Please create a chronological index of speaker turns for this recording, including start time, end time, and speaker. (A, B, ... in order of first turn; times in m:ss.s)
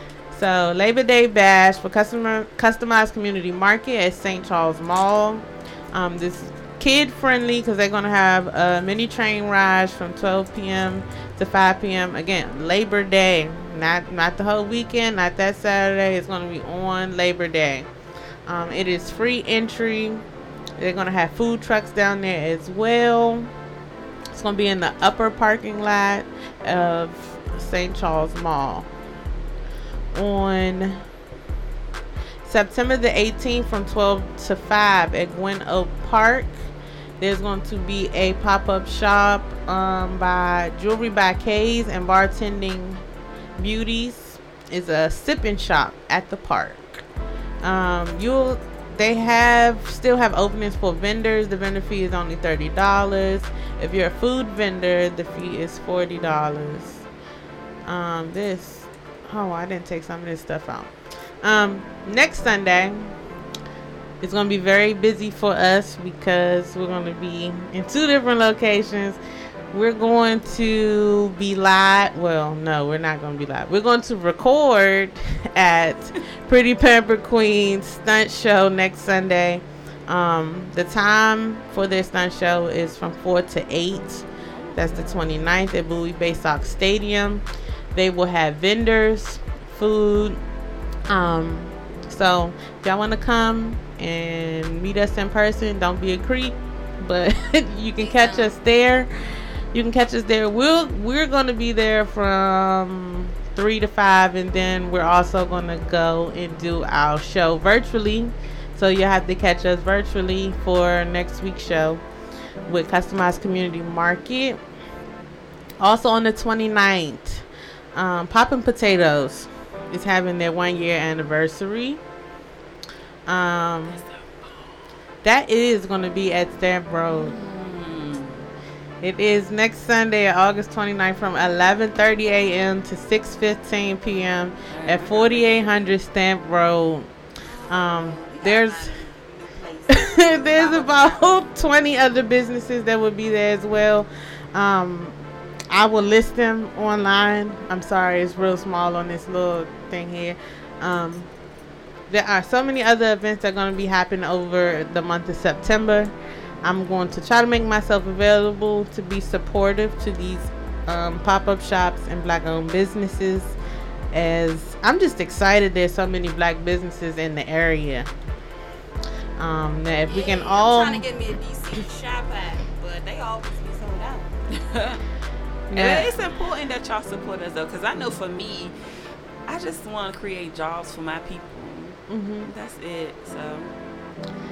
0:00.3-0:17.9 A
0:18.5-0:20.2 A
0:20.8-0:23.5 A
0:24.3-0:28.9 A
0:30.1-0:31.0 A
0:32.4-0:36.7 A
0:37.2-0:43.0 A
0:43.6-0:47.0 A
0:47.6-0:57.0 A
0:57.9-1:00.9 A
1:01.4-1:03.2 A
1:04.2-1:09.2 A
1:09.7-1:30.4 A
1:24.4-1:25.3 B
1:31.1-1:39.1 A
1:38.0-1:38.6 C
1:39.7-1:52.0 A
1:52.7-1:54.6 A
1:55.8-2:02.0 A
2:03.3-2:04.0 A
2:05.2-2:07.4 A
2:07.1-2:08.5 B
2:09.0-2:17.1 A
2:14.7-2:15.5 B
2:17.4-2:21.4 C
2:17.7-2:19.0 A
2:19.9-2:25.2 A
2:25.7-2:31.3 A
2:32.1-2:43.6 A
2:44.1-2:48.1 A
2:49.4-2:51.1 A
2:50.1-2:54.3 C
2:54.5-2:55.0 B
2:55.7-2:56.2 A
2:55.7-2:58.7 B
2:59.5-3:03.7 B
3:02.1-3:02.5 A